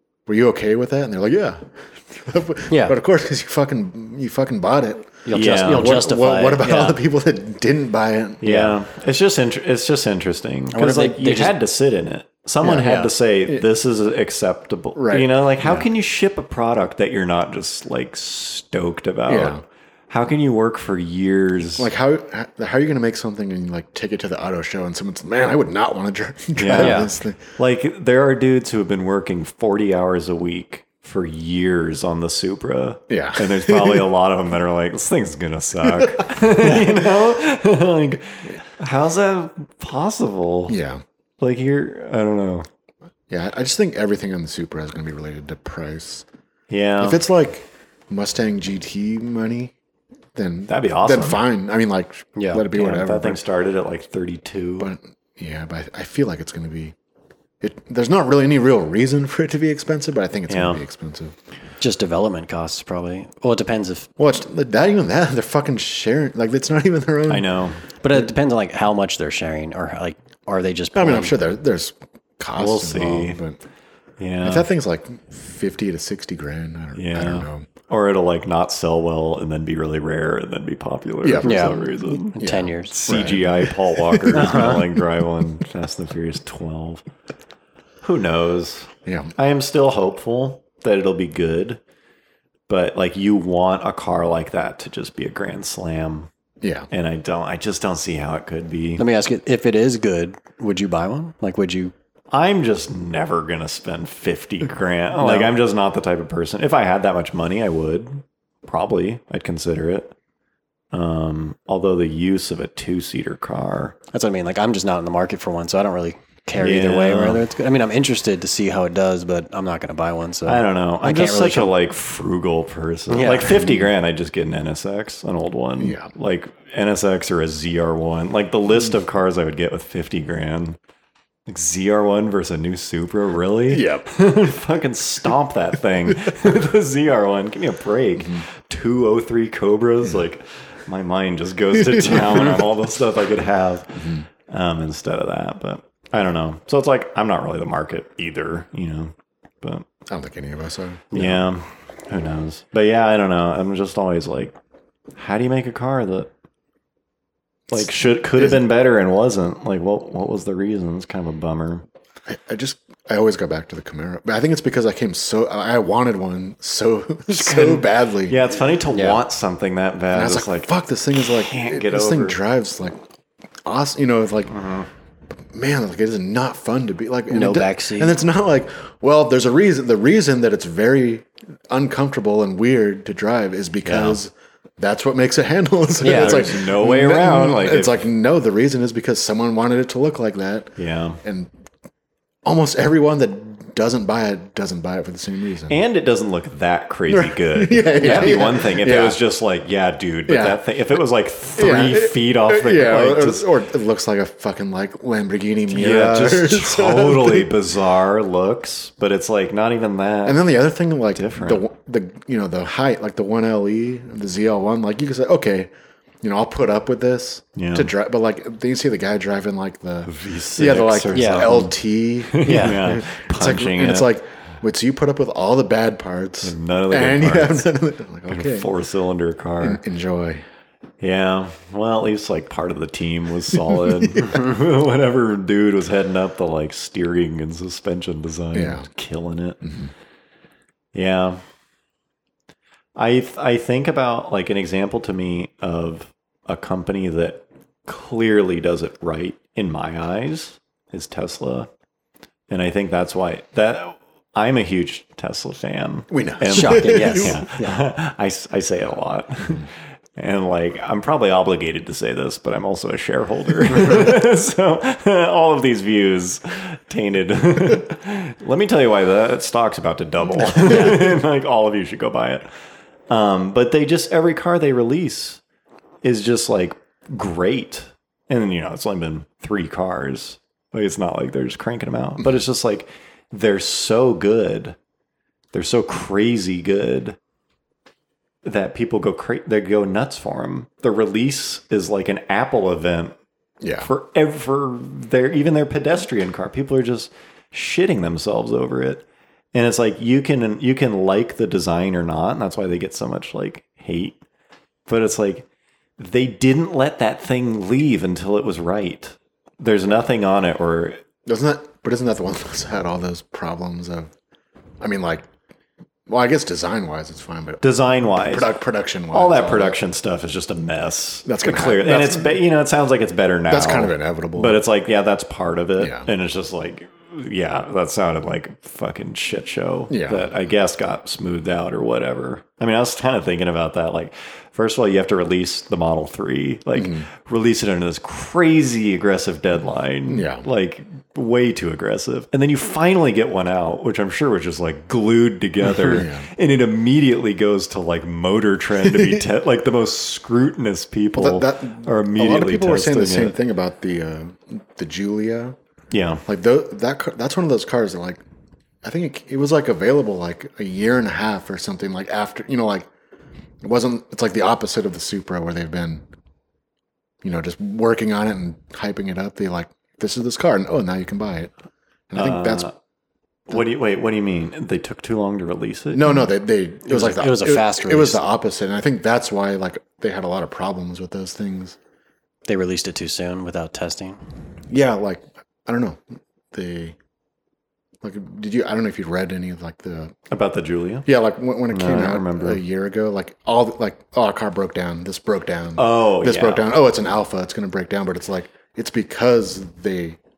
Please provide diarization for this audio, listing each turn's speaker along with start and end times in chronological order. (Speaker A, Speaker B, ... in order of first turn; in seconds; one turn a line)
Speaker A: 0.3-8.4
Speaker B: 2.7-3.0
Speaker B: 5.2-7.0
Speaker C: 5.3-6.0
Speaker C: 8.4-21.9
Speaker B: 8.4-8.7
Speaker B: 10.7-11.6
Speaker B: 12.7-13.1
Speaker A: 15.0-15.3
Speaker A: 19.3-19.6
Speaker A: 21.8-27.4
Speaker C: 26.6-40.8
Speaker B: 26.8-27.1
Speaker A: 33.1-34.1
Speaker A: 35.8-36.3
Speaker A: 40.7-41.0
Speaker C: 41.4-42.7
Speaker A: 43.3-46.3
Speaker C: 46.7-47.2
Speaker A: 47.0-49.7
Speaker A: 50.4-53.4
Speaker C: 50.7-51.4
Speaker B: 52.4-52.6
Speaker C: 52.7-54.9
Speaker A: 54.8-57.0
Speaker A: 57.6-61.4
Speaker C: 60.5-60.8
Speaker B: 61.8-64.1
Speaker A: 64.2-67.5
Speaker C: 67.3-67.8
Speaker B: 68.0-71.4
Speaker A: 70.9-73.6
Speaker C: 72.6-73.4
Speaker C: 74.2-74.7
Speaker A: 74.4-77.7
Speaker C: 76.9-82.4
Speaker A: 81.2-84.8
Speaker B: 81.4-83.0
Speaker C: 82.9-87.0
Speaker B: 84.3-84.8
Speaker C: 88.0-91.8
Speaker A: 89.0-89.3
Speaker C: 92.7-96.3
Speaker A: 96.6-96.9
Speaker C: 96.9-99.0
Speaker B: 99.0-101.9
Speaker C: 102.3-110.1
Speaker B: 105.2-105.5
Speaker C: 110.9-114.0
Speaker B: 114.1-121.7
Speaker C: 116.6-117.4
Speaker C: 120.5-130.8
Speaker B: 123.1-123.7
Speaker A: 125.8-126.1
Speaker C: 131.5-149.9
Speaker A: 133.7-134.1
Speaker A: 138.2-138.4
Speaker A: 150.1-151.1
Speaker B: 151.1-151.4
Speaker C: 151.1-154.6
Speaker C: 155.2-156.3
Speaker A: 157.7-158.6
Speaker C: 157.7-161.8
Speaker A: 162.3-168.4
Speaker C: 167.3-172.4
Speaker B: 168.9-169.2
Speaker A: 170.1-173.0
Speaker A: 173.6-174.6
Speaker C: 174.5-174.9
Speaker A: 175.5-191.5
Speaker B: 177.3-178.1
Speaker C: 183.9-184.2
Speaker B: 186.0-186.5
Speaker C: 186.0-188.0
Speaker C: 190.8-191.2
Speaker A: 192.4-195.8
Speaker C: 195.7-203.5
Speaker A: 197.1-199.2
Speaker B: 198.0-198.4
Speaker A: 200.3-200.6
Speaker A: 201.6-207.5
Speaker C: 205.7-210.4
Speaker A: 210.2-215.7
Speaker C: 211.1-211.6
Speaker A: 216.2-228.7
Speaker C: 217.6-217.9
Speaker C: 220.1-221.7
Speaker B: 221.1-221.6
Speaker C: 222.3-224.1
Speaker B: 222.4-222.9
Speaker C: 226.4-227.7
Speaker C: 228.3-229.8
Speaker A: 229.6-230.4
Speaker C: 231.0-239.7
Speaker A: 238.5-238.9
Speaker A: 239.6-239.9
Speaker C: 240.9-241.4
Speaker C: 243.0-251.7
Speaker C: 252.5-272.5
Speaker A: 256.1-257.4
Speaker B: 256.5-257.8
Speaker B: 270.7-271.0
Speaker C: 273.1-275.4
Speaker C: 276.0-284.8
Speaker C: 285.5-287.2
Speaker C: 288.4-293.1
Speaker A: 293.6-293.9
Speaker C: 293.8-304.2
Speaker C: 304.9-305.5
Speaker C: 306.0-311.0
Speaker A: 311.3-314.1
Speaker A: 314.8-315.3
Speaker A: 316.1-319.8
Speaker C: 317.6-318.5
Speaker C: 319.1-353.4
Speaker A: 321.3-322.4
Speaker A: 323.5-324.6
Speaker A: 325.8-326.1
Speaker A: 329.9-330.3
Speaker A: 336.8-337.1
Speaker A: 340.1-340.4
Speaker A: 345.8-346.3
Speaker A: 348.9-349.2
Speaker A: 351.1-355.6
Speaker C: 355.9-356.2
Speaker A: 356.3-358.2
Speaker A: 358.8-362.9
Speaker A: 363.6-366.0
Speaker A: 367.2-371.5
Speaker A: 372.1-372.7
Speaker C: 372.1-372.8
Speaker C: 373.5-376.2
Speaker A: 375.9-381.8
Speaker B: 376.9-378.3
Speaker B: 382.5-384.2
Speaker A: 384.7-386.0
Speaker A: 386.5-387.0
Speaker A: 388.0-390.1
Speaker C: 390.3-391.1
Speaker A: 391.1-400.2
Speaker C: 391.7-392.6
Speaker C: 395.8-396.7